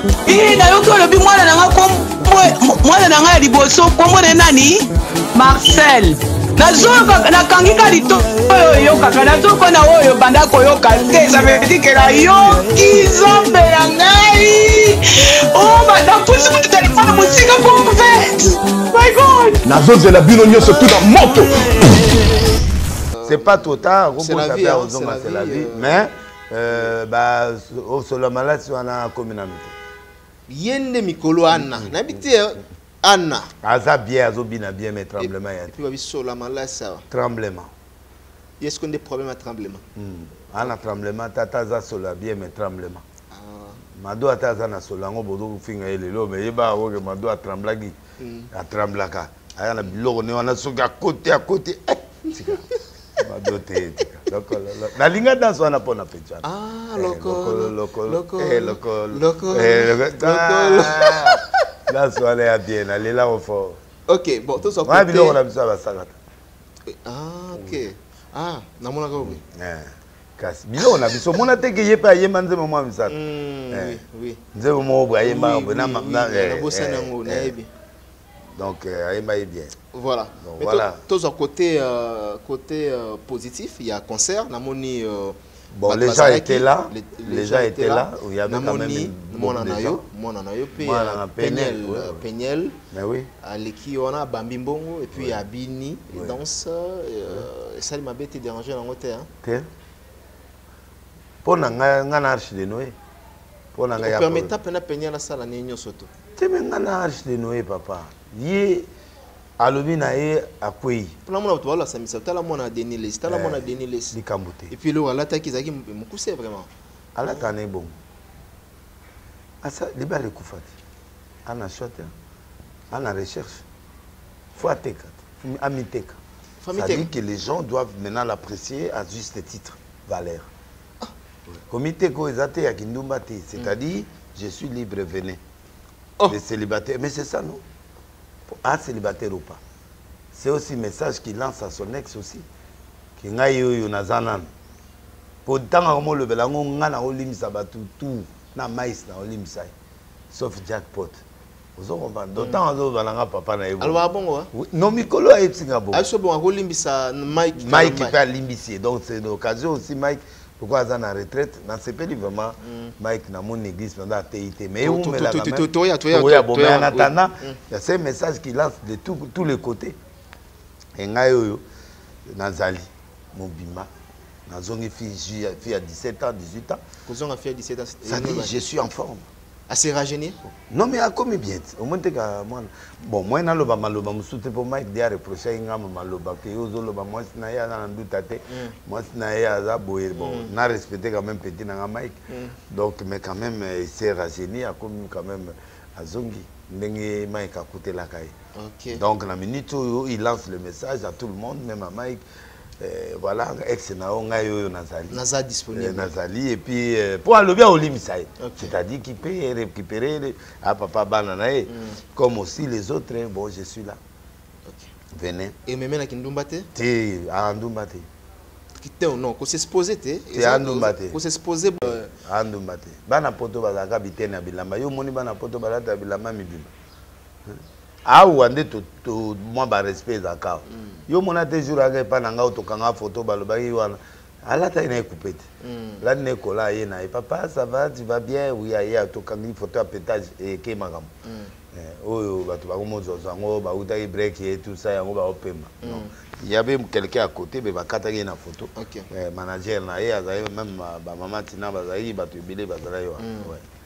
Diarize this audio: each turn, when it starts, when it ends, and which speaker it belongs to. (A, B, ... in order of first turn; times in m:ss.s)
0:00.2-0:19.6 A
0:19.6-0:22.0 B
0:23.1-0:26.0 C
0:23.2-0:29.7 D
0:30.5-0:33.5 C
0:31.5-0:32.2 D
0:33.6-0:35.7 D
0:35.2-0:37.0 C
0:37.1-0:37.7 D
0:38.6-0:39.8 C
0:39.9-0:43.0 D
0:43.3-0:43.8 C
0:43.9-0:48.0 D
0:48.2-0:48.5 C
0:48.5-0:52.7 D
0:53.2-1:03.8 D
0:56.4-1:01.5 C
1:04.1-1:05.4 C
1:04.8-1:06.2 D
1:06.8-1:09.4 C
1:07.6-1:07.8 D
1:09.2-1:13.2 D
1:13.1-1:14.4 C
1:13.7-1:14.0 D
1:14.5-1:17.6 D
1:15.2-1:17.7 C
1:18.6-1:19.7 D
1:19.9-1:32.8 C
1:20.4-1:21.0 D
1:25.7-1:30.0 D
1:30.8-1:32.2 D
1:32.9-1:33.3 D
1:33.4-1:39.3 C
1:35.1-1:35.4 D
1:39.4-1:39.7 D
1:41.4-1:42.9 D
1:43.7-1:44.5 D
1:44.0-1:46.1 C
1:46.4-1:48.9 D
1:49.6-1:51.1 D
1:51.2-1:54.1 C
1:53.3-1:54.7 D
1:54.7-1:56.7 C
1:57.1-1:57.9 D
1:59.6-2:00.7 D
2:01.4-2:02.1 D
2:02.9-2:03.6 D
2:04.5-2:06.2 D
2:06.6-2:07.1 C
2:06.7-2:10.5 D
2:11.5-2:15.4 D
2:16.3-2:17.6 D
2:18.5-2:19.6 D
2:20.3-2:22.4 D
2:23.2-2:24.5 D
2:25.4-2:29.7 D
2:30.3-2:31.2 D
2:31.8-2:34.0 D
2:32.4-2:32.6 C
2:33.8-2:34.5 C
2:34.5-2:36.0 D
2:35.9-2:38.1 C
2:37.5-2:50.0 D
2:42.6-2:42.9 C
2:44.8-2:47.6 C
2:51.0-2:51.6 D
2:52.3-2:53.9 D
2:54.5-2:56.8 D
2:57.0-2:58.6 C
2:58.0-2:59.2 D
2:59.7-3:00.4 C
3:00.7-3:12.2 D
3:08.5-3:08.8 C
3:10.2-3:10.5 C
3:12.3-3:12.6 C
3:12.7-3:18.3 D
3:18.5-3:19.0 C
3:18.9-3:22.2 D
3:22.8-3:25.2 D
3:25.1-3:26.1 C
3:25.7-3:34.0 D
3:28.4-3:28.7 C
3:31.7-3:32.0 C
3:34.7-3:34.9 C
3:35.1-3:35.5 D
3:35.6-3:36.7 C
3:36.7-3:38.0 D
3:38.8-3:42.1 C
3:40.3-3:41.2 D
3:41.8-3:46.7 D
3:48.0-3:55.4 D
3:50.7-3:51.0 C
3:55.6-3:56.0 C
3:56.0-4:01.1 D
4:01.2-4:01.5 C
4:01.7-4:13.6 D
4:05.8-4:06.1 C
4:08.8-4:09.1 C
4:13.2-4:13.5 C